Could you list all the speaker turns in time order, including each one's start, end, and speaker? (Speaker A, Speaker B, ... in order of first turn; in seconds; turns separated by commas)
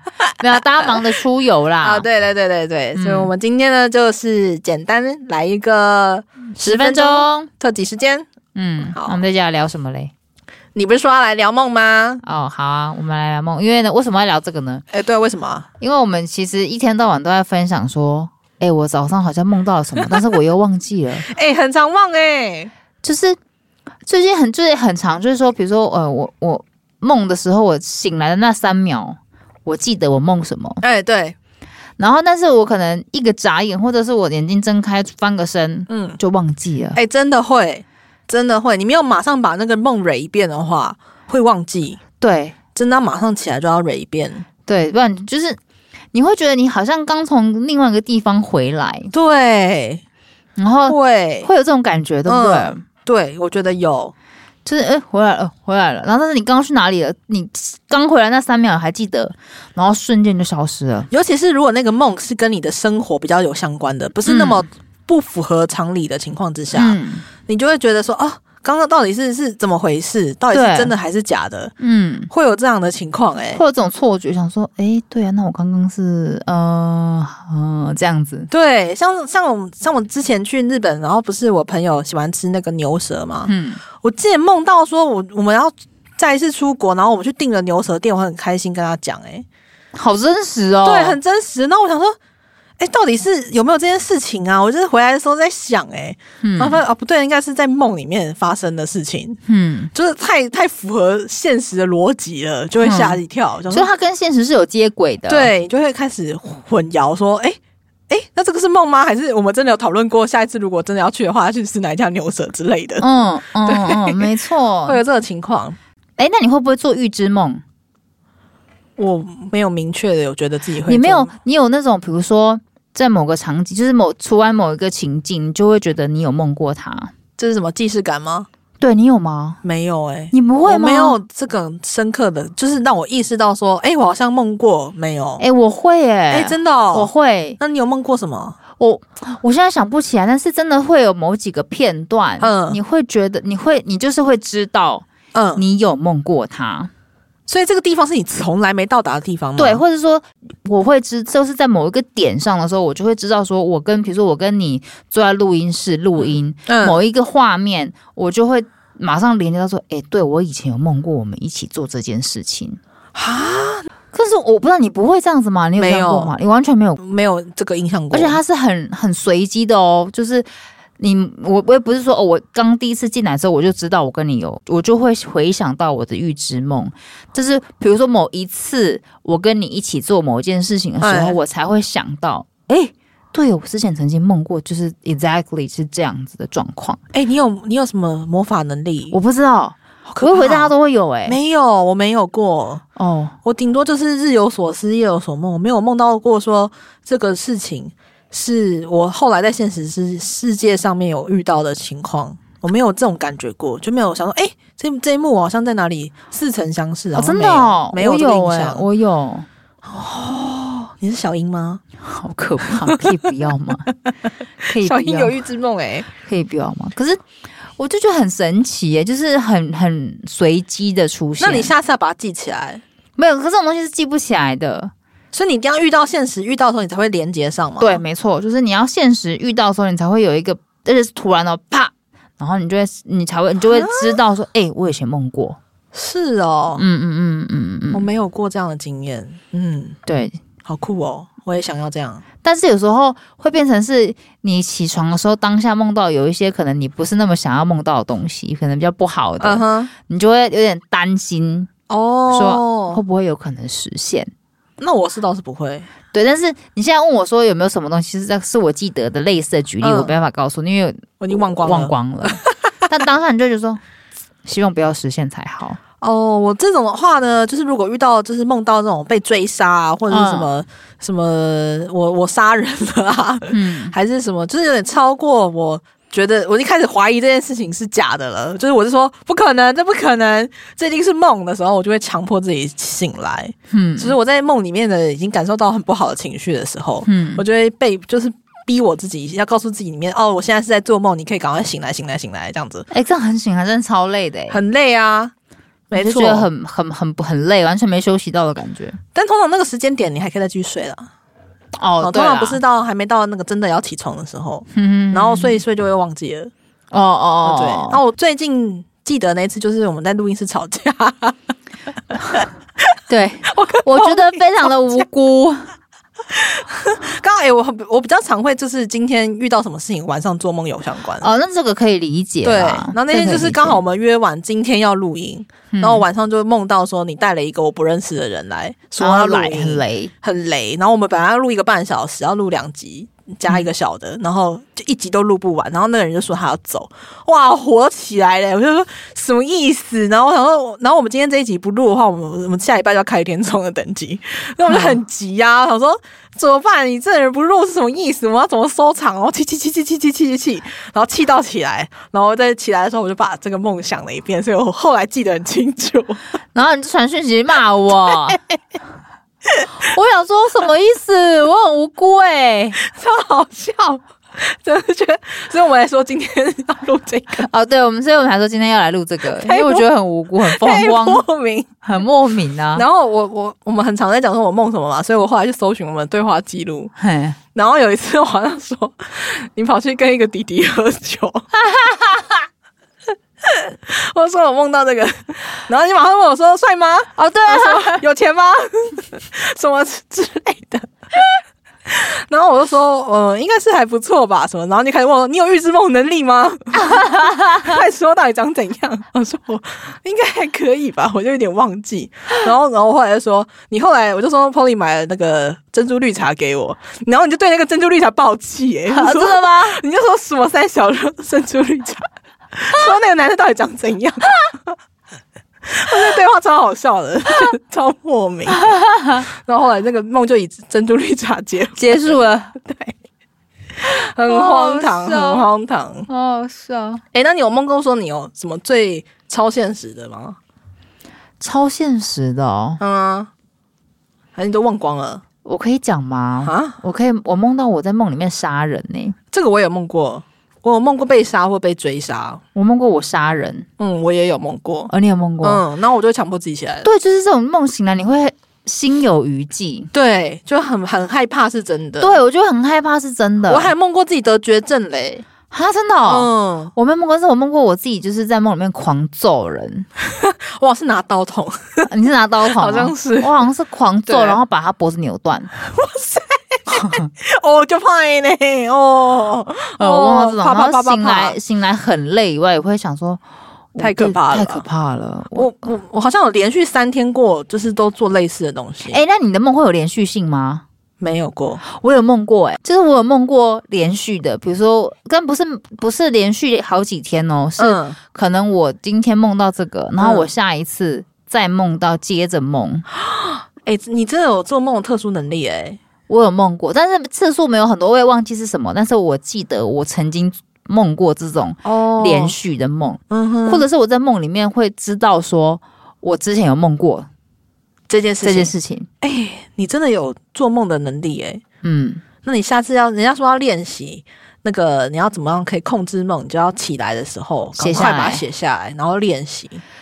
Speaker A: 0.4-2.1, Speaker B: 1.8-8.3, Speaker A: 3.0-3.3, Speaker A: 6.6-7.5, Speaker A: 8.6-10.1, Speaker B: 8.9-9.2, Speaker B: 10.8-12.2, Speaker A: 12.2-14.8, Speaker B: 14.9-15.7, Speaker A: 15.8-21.3, Speaker B: 21.3-22.7, Speaker A: 23.0-23.4, Speaker A: 24.1-30.8, Speaker B: 30.8-31.4, Speaker A: 32.0-37.0, Speaker B: 35.9-36.2, Speaker B: 37.0-42.0, Speaker A: 42.2-42.6, Speaker B: 42.8-44.5, Speaker A: 44.7-45.6, Speaker A: 46.1-49.1, Speaker B: 49.1-50.0, Speaker A: 50.6-52.8, Speaker B: 50.9-51.5, Speaker B: 52.3-54.1, Speaker A: 54.6-61.1, Speaker B: 61.1-71.7, Speaker A: 64.2-64.7, Speaker A: 66.7-67.3, Speaker A: 70.5-70.9, Speaker A: 71.8-72.3, Speaker B: 72.3-73.6, Speaker A: 73.5-78.5, Speaker B: 78.5-89.5, Speaker A: 83.5-83.8, Speaker A: 90.0-91.2, Speaker B: 90.8-92.2, Speaker B: 92.8-99.4, Speaker A: 96.4-96.8, Speaker A: 99.5-99.9, Speaker B: 99.9-103.9, Speaker A: 102.8-105.5, Speaker B: 105.3-107.6, Speaker B: 108.1-113.0, Speaker A: 113.0-115.0, Speaker B: 113.7-114.2, Speaker B: 114.9-115.8, Speaker A: 116.2-117.6, Speaker B: 119.0-121.3, Speaker A: 120.9-127.1, Speaker B: 127.4-128.5, Speaker A: 128.8-129.6, Speaker B: 129.6-135.5, Speaker A: 130.3-131.2, Speaker A: 135.4-137.6, Speaker B: 136.3-138.6, Speaker A: 138.8-146.9, Speaker B: 142.4-142.8, Speaker B: 145.3-145.6, Speaker B: 147.5-149.8, Speaker A: 149.6-162.8, Speaker B: 156.7-157.0, Speaker B: 163.2-163.9, Speaker A: 164.1-167.0, Speaker B: 165.8-166.3, Speaker B: 167.0-168.4, Speaker A: 168.1-170.5, Speaker A: 171.0-187.0, Speaker B: 181.0-181.4, Speaker B: 187.1-189.2, Speaker A: 189.1-191.4, Speaker B: 190.1-190.7, Speaker B: 191.3-192.8, Speaker A: 193.0-193.4, Speaker B: 193.4-208.9, Speaker A: 207.2-209.5, Speaker B: 209.8-211.8, Speaker A: 212.0-213.9, Speaker A: 214.7-215.3, Speaker B: 214.8-216.1, Speaker A: 216.2-217.2, Speaker A: 217.8-221.7, Speaker B: 221.4-222.8, Speaker A: 223.2-224.9, Speaker B: 225.3-228.0, Speaker A: 227.8-235.6, Speaker B: 233.6-234.2, Speaker B: 235.9-236.8, Speaker A: 236.8-238.1, Speaker B: 237.9-240.0, Speaker A: 240.1-240.4, Speaker B: 240.7-242.2, Speaker A: 242.4-251.7, Speaker B: 249.4-249.9, Speaker B: 251.9-253.0, Speaker A: 252.3-254.3, Speaker B: 254.8-255.9, Speaker A: 256.1-263.8, Speaker B: 259.8-260.1, Speaker B: 261.2-261.9, Speaker A: 264.4-265.8, Speaker B: 266.0-292.9, Speaker A: 270.1-270.5, Speaker A: 273.5-273.9, Speaker A: 283.7-284.2, Speaker A: 287.1-287.4, Speaker A: 292.9-294.6, Speaker B: 294.5-295.3, Speaker B: 295.9-296.5, Speaker A: 295.9-299.0, Speaker B: 299.1-301.1, Speaker A: 301.8-302.6, Speaker B: 302.0-306.5, Speaker A: 304.7-305.6, Speaker A: 306.9-308.0, Speaker B: 307.4-311.4, Speaker B: 312.1-312.5, Speaker A: 313.1-315.7, Speaker B: 313.5-315.0, Speaker B: 316.3-321.3, Speaker A: 321.2-323.8, Speaker B: 322.4-356.2, Speaker A: 325.7-326.1, Speaker A: 329.0-330.1, Speaker A: 344.7-345.0, Speaker A: 356.5-358.4, Speaker A: 359.8-362.8, Speaker B: 362.8-367.5, Speaker A: 367.4-371.2, Speaker B: 369.3-369.9, Speaker B: 370.5-371.7, Speaker A: 371.8-372.9, Speaker B: 372.8-376.9, Speaker A: 377.0-377.4, Speaker B: 377.6-381.5, Speaker A: 381.6-382.3, Speaker B: 383.4-390.9, Speaker A: 387.2-388.0, Speaker B: 391.9-414.4, Speaker A: 396.9-397.8, Speaker A: 408.9-409.8, Speaker B: 415.7-418.6, Speaker A: 418.5-419.3, Speaker B: 419.2-422.9, Speaker A: 421.8-422.6, Speaker A: 423.9-425.5, Speaker B: 423.9-426.1, Speaker A: 426.1-427.0, Speaker B: 427.1-430.4, Speaker A: 431.4-432.8, Speaker B: 432.8-433.3, Speaker B: 434.4-435.2, Speaker A: 435.4-439.2, Speaker B: 436.4-436.8, Speaker B: 439.3-442.4, Speaker A: 442.6-443.7, Speaker B: 443.8-446.9, Speaker A: 444.9-445.6, Speaker A: 446.8-449.9, Speaker B: 449.9-452.2, Speaker A: 452.0-453.7, Speaker B: 453.5-455.2, Speaker A: 455.5-459.9, Speaker B: 456.1-456.7, Speaker B: 460.1-461.9, Speaker A: 461.9-465.5, Speaker B: 462.5-463.4, Speaker B: 464.1-464.4, Speaker B: 465.6-471.4, Speaker A: 466.8-467.1, Speaker A: 469.8-473.2, Speaker A: 473.8-475.5, Speaker B: 473.8-474.7, Speaker B: 475.3-479.0, Speaker A: 478.9-480.6, Speaker B: 481.0-481.6, Speaker A: 481.6-492.9, Speaker B: 487.6-488.0, Speaker B: 490.0-490.3, Speaker B: 493.0-495.8, Speaker A: 496.1-507.1, Speaker B: 501.6-502.4, Speaker B: 503.1-503.6, Speaker B: 507.9-511.4, Speaker A: 508.2-508.9, Speaker A: 511.6-512.0, Speaker B: 512.2-519.6, Speaker A: 517.6-518.2